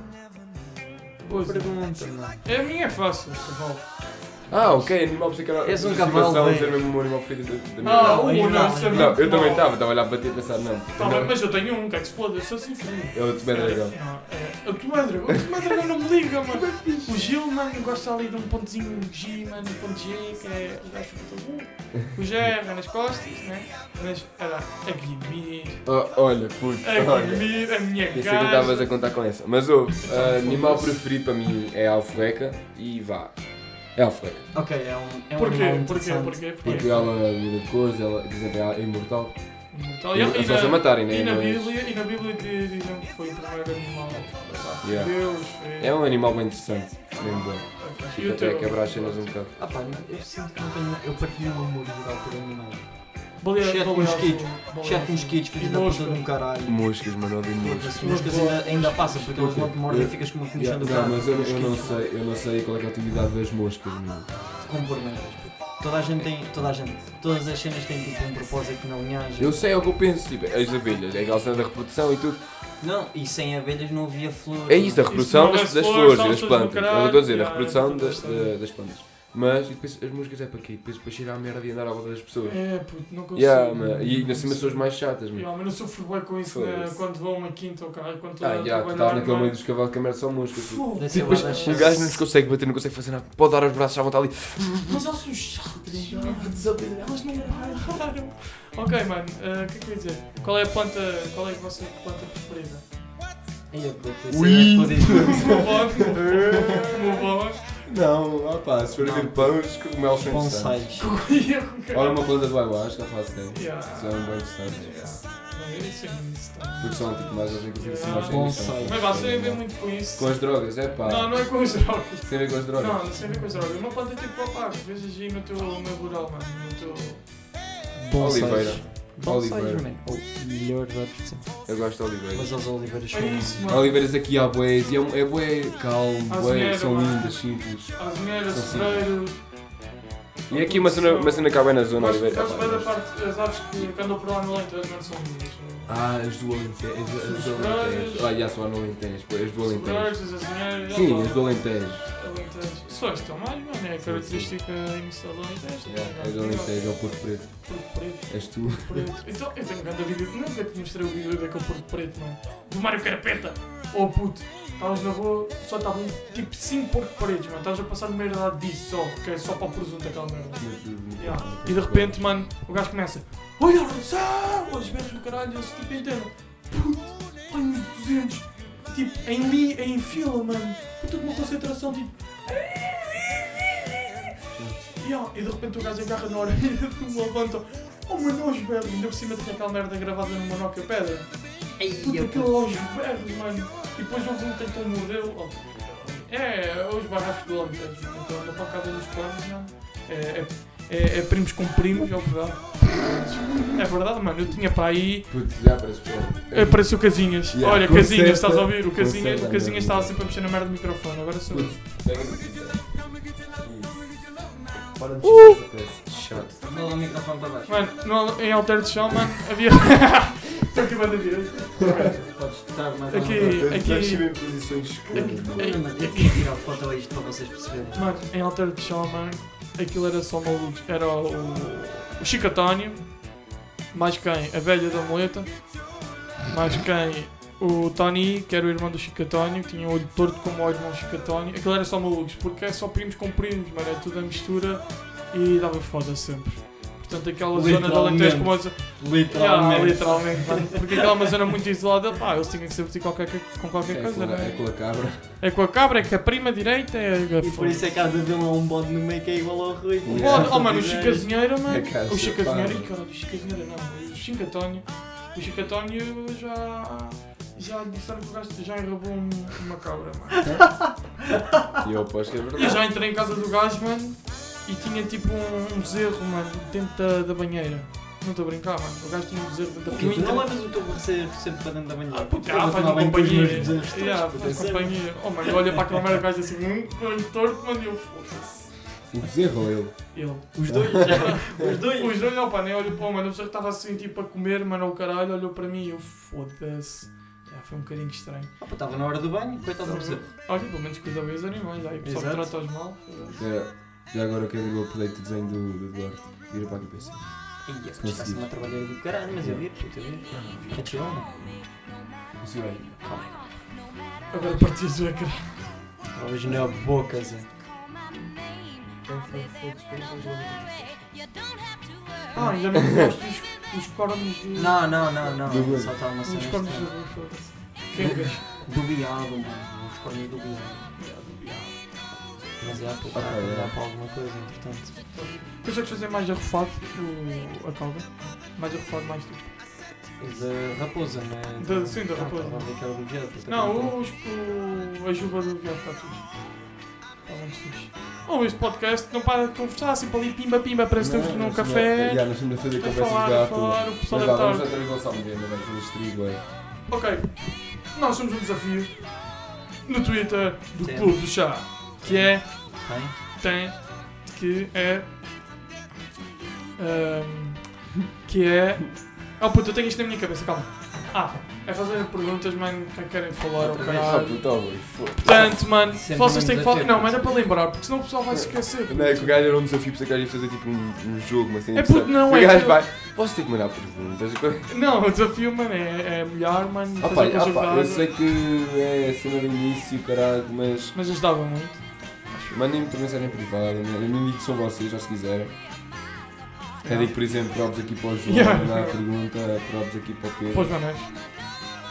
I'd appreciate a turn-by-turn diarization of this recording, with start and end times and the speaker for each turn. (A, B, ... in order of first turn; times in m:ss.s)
0:01.2-0:02.5 A
0:01.2-0:04.9 B
0:04.5-0:11.4 C
0:05.6-0:06.8 A
0:07.8-0:09.9 B
0:07.9-0:09.2 A
0:11.0-0:29.4 B
0:13.1-0:14.0 C
0:16.5-0:17.2 C
0:25.8-0:34.5 C
0:30.0-0:31.0 B
0:34.5-0:36.8 A
0:35.4-0:37.1 B
0:36.6-0:41.7 C
0:39.7-0:49.7 B
0:44.8-0:49.5 C
0:49.6-1:02.1 A
0:53.4-0:56.3 B
0:56.6-0:58.3 C
0:58.0-0:59.7 B
0:59.4-1:04.3 C
1:04.6-1:09.6 A
1:06.2-1:06.6 C
1:09.4-1:12.4 C
1:12.8-1:15.2 A
1:14.7-1:25.7 C
1:15.1-1:18.7 B
1:22.4-1:29.9 B
1:26.4-1:27.0 C
1:28.4-1:35.0 C
1:30.5-1:32.1 B
1:31.0-1:32.2 A
1:34.9-1:42.8 B
1:35.8-1:37.0 A
1:36.2-1:37.5 C
1:43.7-1:45.7 A
1:44.3-1:45.4 C
1:45.1-1:47.9 B
1:46.2-1:47.0 C
1:47.8-1:50.9 C
1:49.0-1:51.1 A
1:51.0-1:52.4 B
1:51.9-1:55.2 C
1:53.5-2:07.6 B
1:56.8-2:03.1 C
1:58.0-1:59.0 A
2:03.2-2:03.7 A
2:07.9-2:13.8 A
2:08.2-2:09.8 C
2:08.6-2:08.8 B
2:11.7-2:12.8 C
2:13.1-2:14.1 B
2:13.7-2:19.3 C
2:16.3-2:19.8 B
2:20.5-2:23.0 C
2:20.5-2:26.1 B
2:25.9-2:32.0 C
2:27.2-2:28.5 B
2:29.6-3:03.9 B
2:34.0-2:34.6 C
2:35.8-2:39.1 C
2:50.6-2:52.4 C
3:04.5-3:04.8 C
3:05.0-3:25.8 B
3:11.8-3:12.5 A
3:25.3-3:30.3 C
3:26.5-3:32.0 B
3:31.5-3:36.6 C
3:35.2-3:35.6 B
3:36.3-3:37.9 A
3:37.7-3:46.5 B
3:41.9-3:43.7 A
3:43.3-3:45.8 C
3:45.1-3:48.2 A
3:47.9-4:17.9 B
4:07.5-4:10.8 A
4:13.9-4:15.3 C
4:17.4-4:21.3 A
4:20.0-4:20.7 C
4:20.1-4:30.7 B
4:21.6-4:22.9 C
4:30.4-4:30.8 C
4:31.8-4:32.8 C
4:32.6-4:40.6 B
4:39.9-4:45.3 A
4:42.1-4:49.1 B
4:49.1-4:51.3 C
4:50.1-4:58.5 B
4:50.5-4:52.2 A
4:58.6-5:00.3 A
4:59.8-5:03.5 B
5:02.0-5:02.5 A
5:03.4-5:08.7 C
5:07.6-5:11.4 A
5:09.4-5:10.8 C
5:12.4-5:13.0 C
5:13.0-5:13.5 A
5:14.3-5:15.8 B
5:16.1-5:17.5 A
5:19.0-5:21.1 C
5:22.3-5:25.4 B
5:24.6-5:27.0 A
5:25.4-5:26.0 C
5:26.2-5:28.5 B
5:28.6-5:31.0 A
5:31.0-5:32.3 B
5:32.6-5:35.0 A
5:33.1-5:33.7 C
5:35.1-5:39.6 B
5:40.2-5:44.0 A
5:41.6-5:54.7 B
5:51.0-5:56.4 C
5:56.9-6:05.2 B
6:00.8-6:03.2 A
6:06.8-6:19.5 B
6:13.6-6:14.2 A
6:13.9-6:15.4 C
6:15.3-6:17.4 A
6:18.3-6:24.7 C
6:21.7-6:22.9 B
6:24.7-6:28.4 B
6:27.0-6:31.0 C
6:30.9-6:32.8 B
6:32.5-6:35.6 C
6:36.8-6:37.3 B
6:36.8-6:40.8 C
6:38.3-6:39.0 B
6:40.5-6:41.1 B